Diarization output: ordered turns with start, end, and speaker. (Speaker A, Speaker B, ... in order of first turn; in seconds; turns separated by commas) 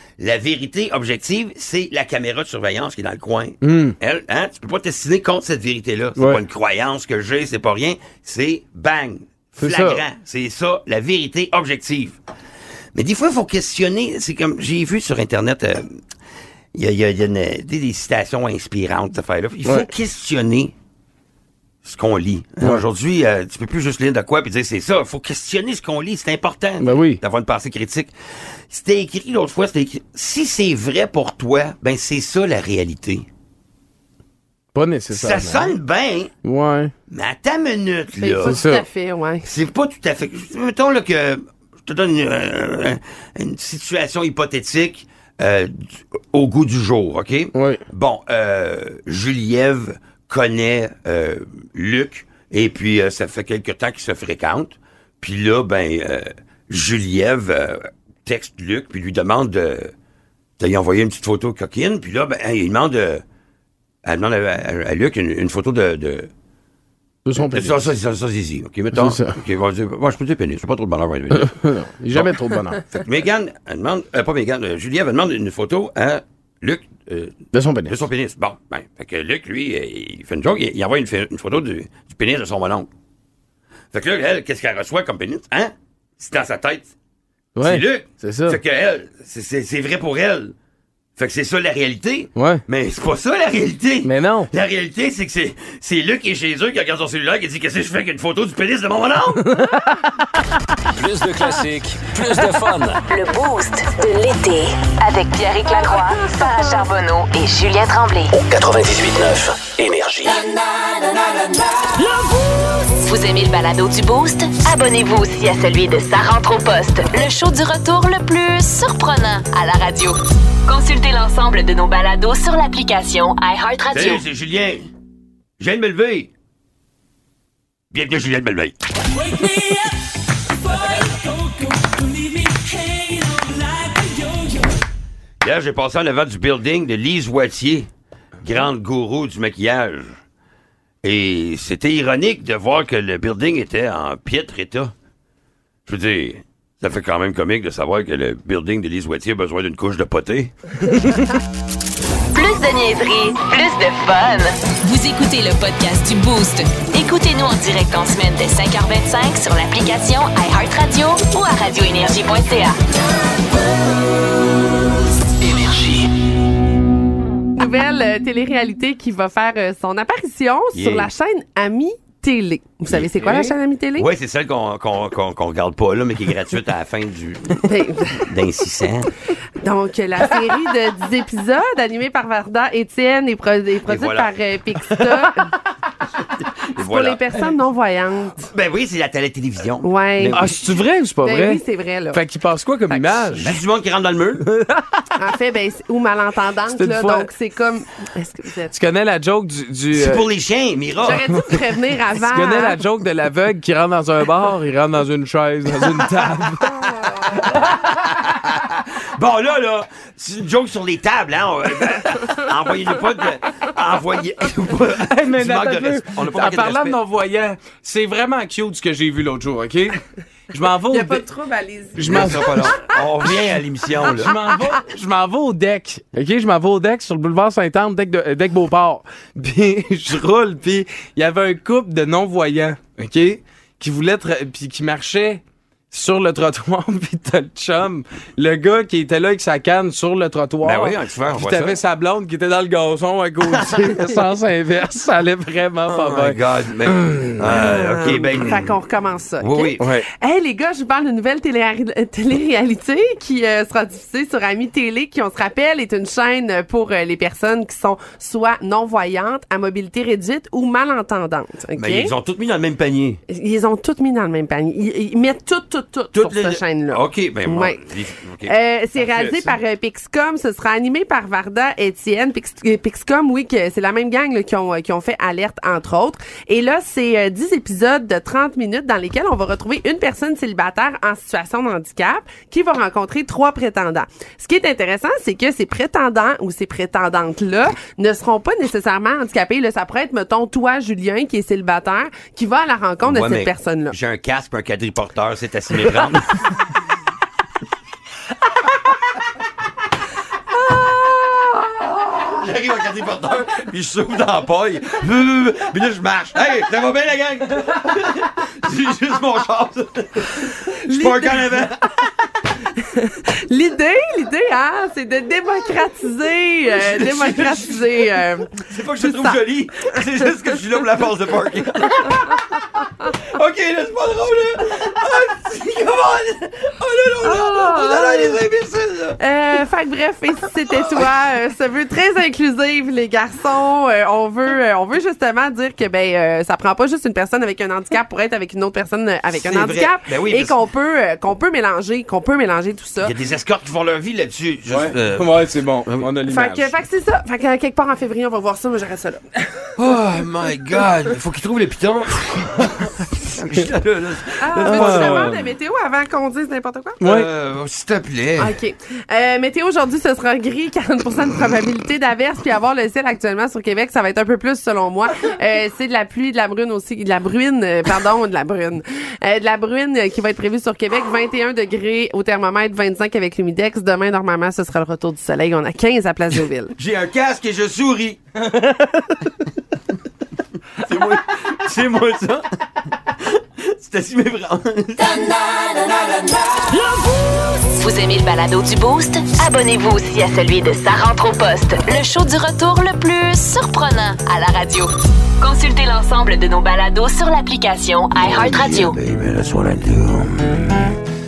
Speaker A: 0.2-12.2, Speaker B: 3.6-4.0, Speaker B: 6.2-6.4, Speaker B: 9.6-10.1, Speaker A: 12.9-15.9, Speaker A: 16.7-20.7, Speaker A: 21.8-28.1, Speaker B: 26.8-27.2, Speaker A: 28.7-33.3, Speaker B: 34.7-35.8, Speaker A: 35.1-36.3, Speaker B: 36.4-36.9, Speaker A: 37.1-38.6, Speaker C: 38.2-39.5, Speaker B: 38.4-38.9, Speaker A: 39.5-59.9, Speaker B: 47.5-47.8, Speaker A: 60.6-63.2, Speaker A: 64.0-66.3, Speaker B: 67.2-67.9, Speaker A: 67.4-71.6, Speaker B: 68.9-69.4, Speaker B: 71.3-72.8, Speaker A: 72.1-72.4, Speaker A: 72.9-82.9, Speaker B: 77.5-78.0, Speaker A: 83.9-86.9, Speaker B: 87.5-88.6, Speaker A: 87.6-90.5, Speaker A: 91.2-99.4, Speaker B: 92.3-92.6, Speaker B: 94.0-94.5, Speaker B: 99.4-100.3, Speaker D: 101.0-103.0, Speaker E: 103.0-108.4, Speaker D: 108.3-110.3, Speaker E: 112.9-124.2, Speaker A: 123.9-124.9, Speaker A: 125.6-126.3, Speaker A: 127.9-128.8, Speaker A: 135.4-137.9, Speaker A: 138.4-140.2, Speaker A: 141.0-144.9, Speaker A: 145.9-150.5, Speaker E: 152.3-162.8, Speaker A: 165.4-166.1, Speaker C: 167.6-174.1, Speaker A: 170.7-171.1, Speaker A: 172.9-173.3, Speaker A: 174.0-179.1, Speaker C: 177.6-178.4, Speaker C: 179.6-185.5, Speaker A: 183.9-184.4, Speaker B: 184.8-185.6, Speaker A: 186.4-187.5, Speaker C: 186.8-188.5, Speaker A: 188.5-190.5, Speaker C: 189.8-190.5, Speaker B: 190.3-193.6, Speaker C: 191.2-192.2, Speaker C: 192.9-193.2, Speaker A: 193.3-194.5, Speaker B: 194.4-195.0, Speaker C: 195.2-198.7, Speaker B: 196.7-197.3, Speaker B: 198.7-200.3, Speaker A: 199.9-201.2, Speaker C: 201.0-202.8, Speaker B: 201.1-207.8, Speaker A: 205.8-206.5, Speaker A: 207.4-217.0, Speaker B: 214.9-221.2, Speaker C: 220.9-222.8, Speaker B: 221.9-222.8, Speaker A: 222.0-224.3, Speaker B: 224.1-247.7, Speaker A: 240.6-241.8, Speaker A: 243.5-244.1, Speaker A: 245.9-248.8, Speaker C: 247.4-262.1, Speaker A: 249.4-249.8, Speaker B: 249.8-250.1, Speaker A: 261.7-263.2, Speaker C: 263.3-293.9, Speaker A: 266.1-268.6, Speaker B: 269.0-269.6, Speaker A: 293.0-296.5, Speaker A: 301.7-311.9, Speaker C: 310.9-311.6, Speaker C: 312.6-320.0, Speaker A: 316.8-329.2, Speaker C: 327.2-328.4, Speaker C: 329.2-343.2, Speaker A: 330.8-331.1, Speaker A: 339.3-340.6, Speaker A: 343.0-346.1, Speaker B: 344.7-346.8, Speaker C: 346.3-349.2, Speaker A: 349.8-355.4, Speaker C: 354.4-357.0, Speaker B: 354.6-355.4, Speaker B: 357.0-357.3, Speaker A: 357.1-358.6, Speaker C: 358.4-376.8, Speaker A: 376.8-378.2, Speaker A: 380.8-385.7, Speaker E: 387.6-399.0, Speaker A: 398.2-401.0